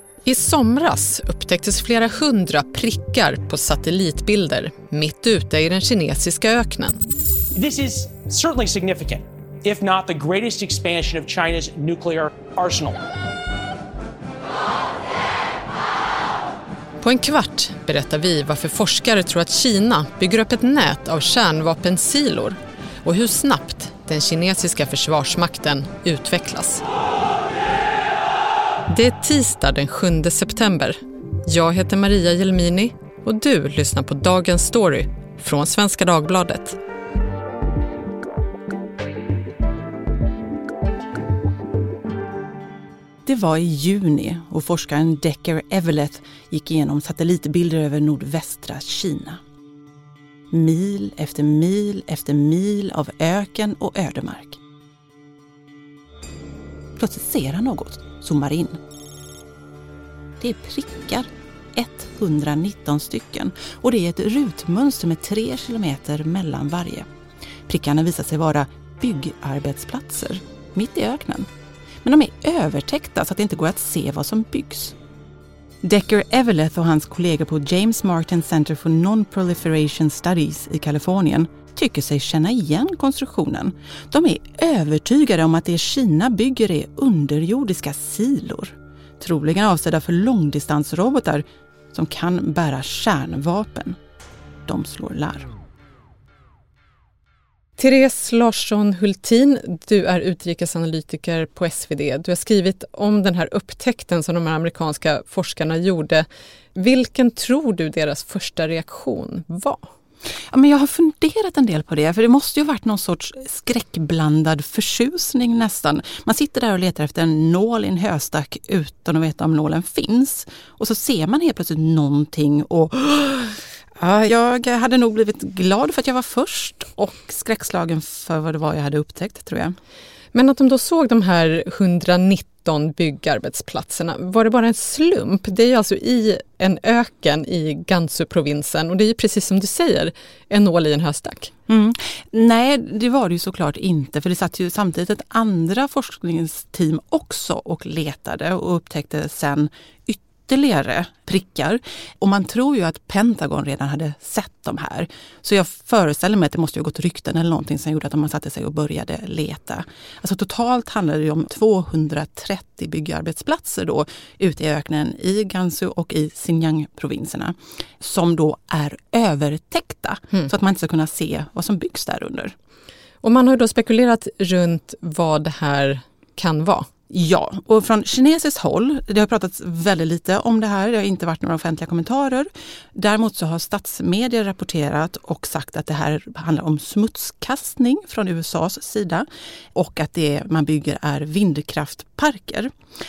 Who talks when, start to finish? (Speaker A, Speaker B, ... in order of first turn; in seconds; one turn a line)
Speaker A: 0.2-7.0
Speaker B: 7.5-13.0
Speaker A: 17.0-26.8
Speaker A: 28.9-36.8
Speaker C: 43.3-49.4
Speaker C: 50.5-54.6
Speaker C: 57.0-58.8
Speaker C: 60.4-67.1
Speaker C: 67.7-71.5
Speaker C: 72.0-75.0
Speaker C: 75.8-94.0
Speaker C: 94.7-95.5
Speaker A: 97.8-109.8
Speaker C: 110.5-129.8
Speaker A: 130.3-141.5
Speaker C: 141.7-172.5
Speaker A: 173.2-176.9
Speaker C: 177.1-192.7